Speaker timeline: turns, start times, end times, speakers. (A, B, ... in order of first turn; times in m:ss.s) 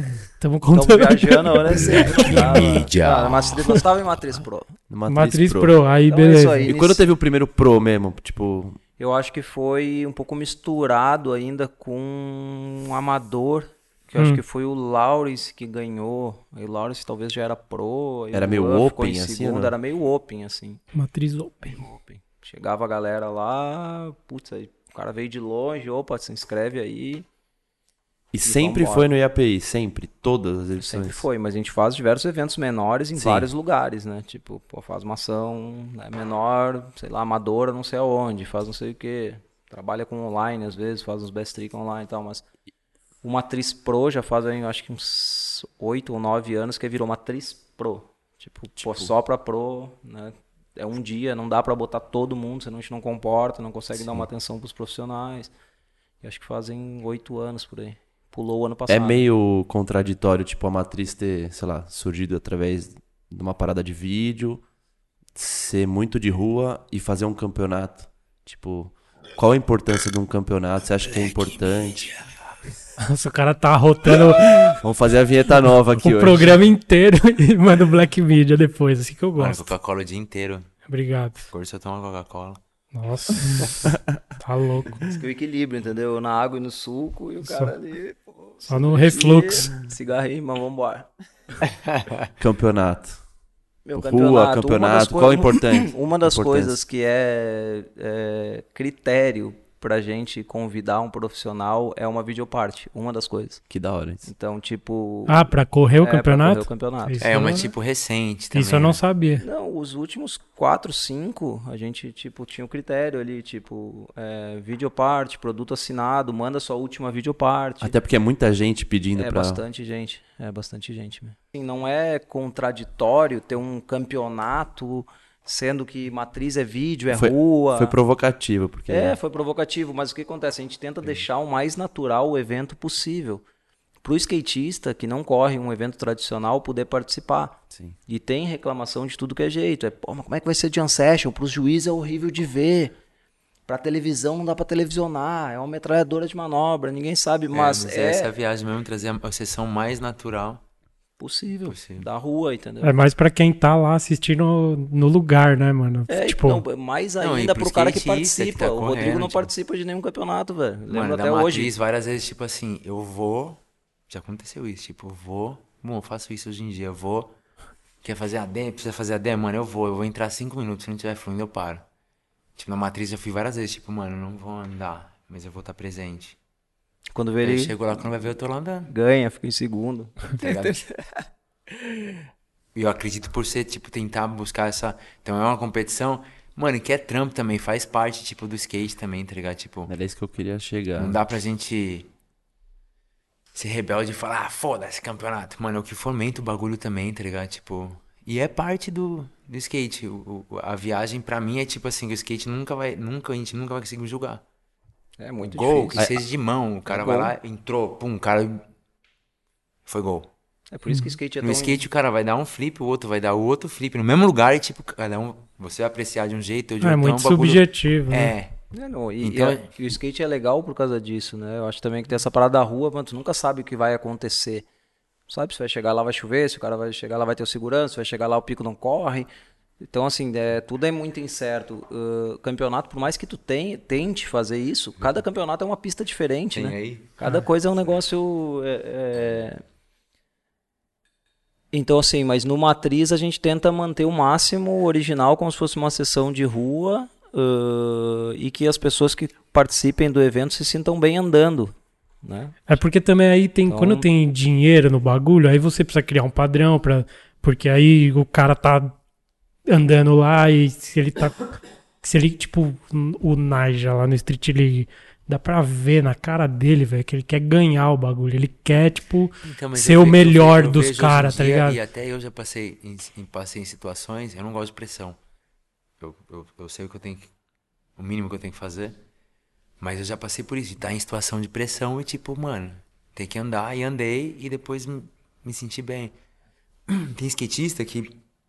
0:00.4-0:02.7 A
0:00.7-0:04.7 B
0:01.7-0:03.9 C
0:04.9-0:05.8 D
0:05.1-0:06.7 A
0:06.1-0:07.0 B
0:06.6-0:08.8 D
0:09.0-0:20.8 B
0:18.3-0:19.7 D
0:20.9-0:21.8 A
0:21.6-0:27.3 B
0:28.3-0:31.2 D
0:28.4-0:29.1 B
0:30.8-0:42.4 B
0:33.2-0:33.5 D
0:43.2-0:55.5 B
0:48.8-0:49.1 D
0:54.0-0:54.3 D
0:56.2-0:59.2 B
0:58.9-1:04.6 D
1:05.4-1:12.1 D
1:13.0-1:14.8 A
1:14.8-1:16.6 D
1:16.0-1:19.7 A
1:19.4-1:20.7 C
1:20.9-1:21.5 A
1:21.5-1:22.6 C
1:22.9-1:25.1 A
1:25.0-1:31.1 B
1:27.4-1:27.7 A
1:28.7-1:29.7 A
1:32.4-1:33.2 D
1:33.8-1:43.6 B
1:34.0-1:36.8 D
1:43.7-1:44.3 D
1:44.2-1:47.5 B
1:45.3-1:47.7 A
1:47.2-1:49.0 C
1:48.5-1:49.4 A
1:49.4-1:58.0 B
1:57.8-1:59.6 D
1:59.2-2:08.0 B
2:07.1-2:09.2 D
2:08.9-2:13.4 B
2:14.0-2:23.0 B
2:23.7-2:28.3 B
2:27.5-2:30.6 C
2:31.2-2:33.0 B
2:31.7-2:32.1 C
2:32.8-2:36.6 A
2:36.1-2:41.7 B
2:37.2-2:39.5 C
2:40.9-2:47.4 C
2:48.0-2:51.8 C
2:52.6-2:56.4 C
2:57.1-2:57.8 B
2:57.4-2:58.9 C
2:58.9-3:01.2 B
3:00.4-3:00.8 C
3:01.9-3:02.1 B
3:02.8-3:09.9 C
3:09.9-3:11.2 D
3:11.0-3:12.1 C
3:13.6-3:24.4 C
3:25.2-3:26.0 B
3:25.4-3:28.6 C
3:26.9-3:27.3 B
3:29.9-3:30.3 C
3:30.7-3:31.8 B
3:31.4-3:38.6 C
3:36.8-3:38.3 A
3:38.7-3:44.7 B
3:39.2-3:39.7 C
3:45.3-3:49.3 B
3:49.8-3:59.6 B
3:56.5-3:57.1 C
4:01.7-4:12.8 B
4:12.7-4:19.0 A
4:13.7-4:14.1 B
4:19.7-4:31.8 A
4:29.4-4:35.2 C
4:36.0-4:37.3 C
4:38.0-4:39.0 C
4:39.8-4:46.1 C
4:46.9-4:48.2 C